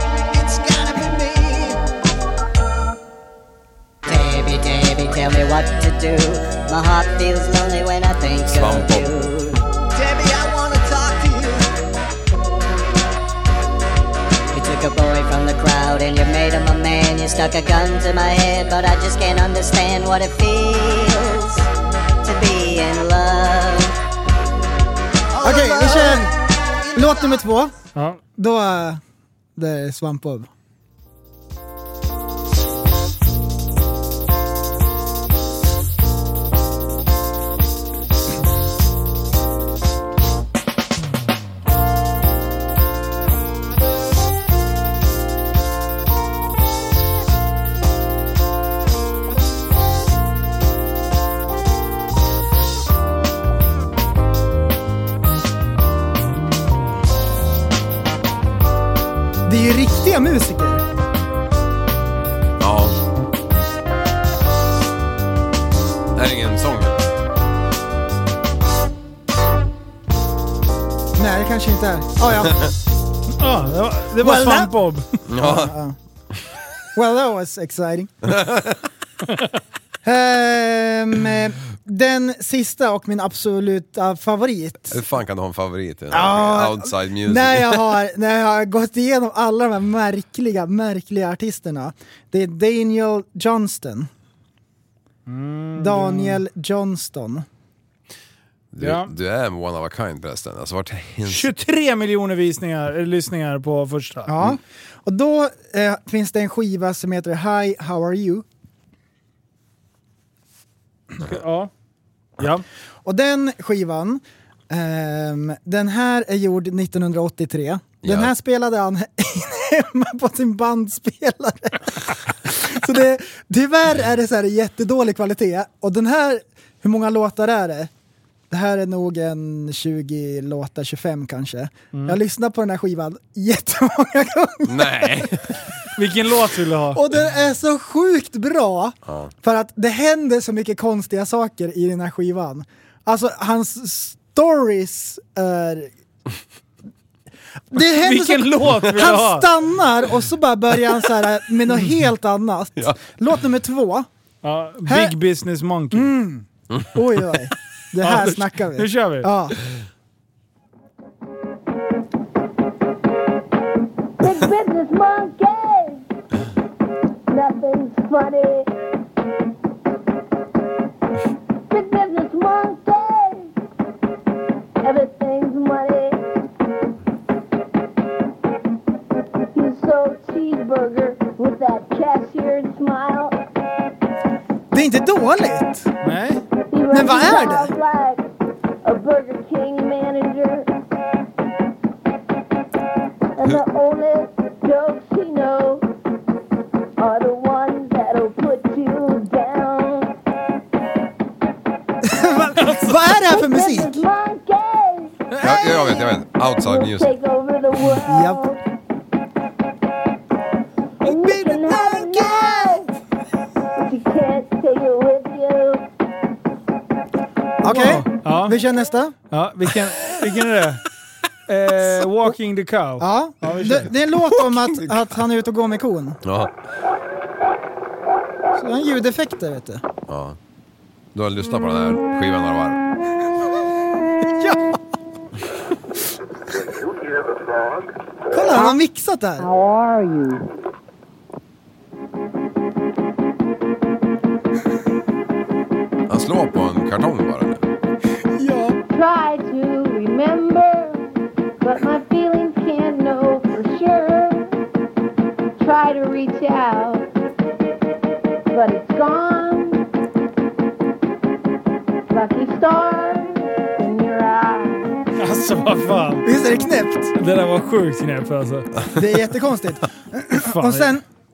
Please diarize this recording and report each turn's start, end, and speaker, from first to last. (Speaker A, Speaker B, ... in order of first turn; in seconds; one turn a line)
Speaker A: 0.3-1.8
Speaker B: 4.1-9.3
Speaker C: 8.5-9.3
Speaker A: 9.9-11.6
Speaker B: 14.5-20.9
Speaker B: 22.3-23.9
Speaker A: 25.3-27.4
Speaker D: 25.4-26.3
Speaker D: 26.9-27.7
Speaker E: 27.9-28.2
Speaker D: 28.4-29.0
Speaker D: 29.6-30.5
Speaker D: 59.5-60.8
Speaker C: 62.6-63.0
Speaker C: 66.1-67.1
Speaker D: 71.2-72.6
Speaker E: 73.4-75.2
Speaker D: 74.2-74.7
Speaker C: 75.3-75.7
Speaker D: 75.4-76.0
Speaker D: 76.9-78.1
Speaker C: 78.2-78.7
Speaker D: 80.0-85.0
Speaker C: 84.9-88.0
Speaker D: 86.1-94.1
Speaker E: 95.3-96.4
Speaker D: 95.8-97.4
Speaker C: 98.7-101.5
Speaker E: 98.8-99.1
Speaker E: 101.2-104.3
Speaker D: 104.3-108.5
Speaker E: 111.2-111.7
Speaker E: 112.4-112.6
Speaker D: 113.0-127.9
Speaker C: 118.0-118.3
Speaker D: 128.5-135.3
Speaker C: 134.7-135.4
Speaker E: 135.9-137.0
Speaker D: 136.9-145.9
Speaker C: 139.1-139.3
Speaker D: 147.7-154.1
Speaker E: 147.7-149.5
Speaker E: 154.4-156.1
Speaker D: 154.9-155.1
Speaker D: 155.9-159.6
Speaker E: 158.0-159.3
Speaker F: 164.2-166.1
Speaker F: 167.3-168.7
Speaker F: 171.7-173.5
Speaker F: 174.8-176.2
Speaker F: 179.5-183.3
Speaker D: 184.7-185.9
Speaker E: 186.0-186.4
Speaker F: 186.7-188.2
Speaker D: 186.9-187.7
Speaker F: 188.8-190.7
Speaker F: 193.4-195.8
Speaker F: 197.0-200.1
Speaker D: 202.0-204.1
Speaker E: 202.6-203.0
Speaker F: 203.2-205.1
Speaker E: 205.3-205.9
Speaker C: 205.4-207.1
Speaker F: 206.6-208.6
Speaker D: 208.0-208.4
Speaker F: 211.0-212.9
Speaker E: 211.0-211.7
Speaker D: 211.8-212.4
Speaker F: 213.7-215.8
Speaker D: 217.6-219.1
Speaker E: 217.7-218.6
Speaker E: 219.3-220.8
Speaker E: 221.5-223.9
Speaker D: 223.0-226.2
Speaker C: 226.2-226.5
Speaker D: 228.5-229.8
Speaker C: 230.1-230.4
Speaker C: 231.1-232.8
Speaker D: 238.3-239.5
Speaker C: 246.1-247.6
Speaker D: 248.4-248.8
Speaker F: 248.9-251.0
Speaker F: 251.6-254.5
Speaker F: 255.6-257.1
Speaker F: 258.5-259.8
Speaker F: 262.1-264.9
Speaker E: 265.1-266.2
Speaker D: 266.2-267.1
Speaker E: 267.1-268.7
Speaker D: 268.9-271.0
Speaker E: 270.3-271.0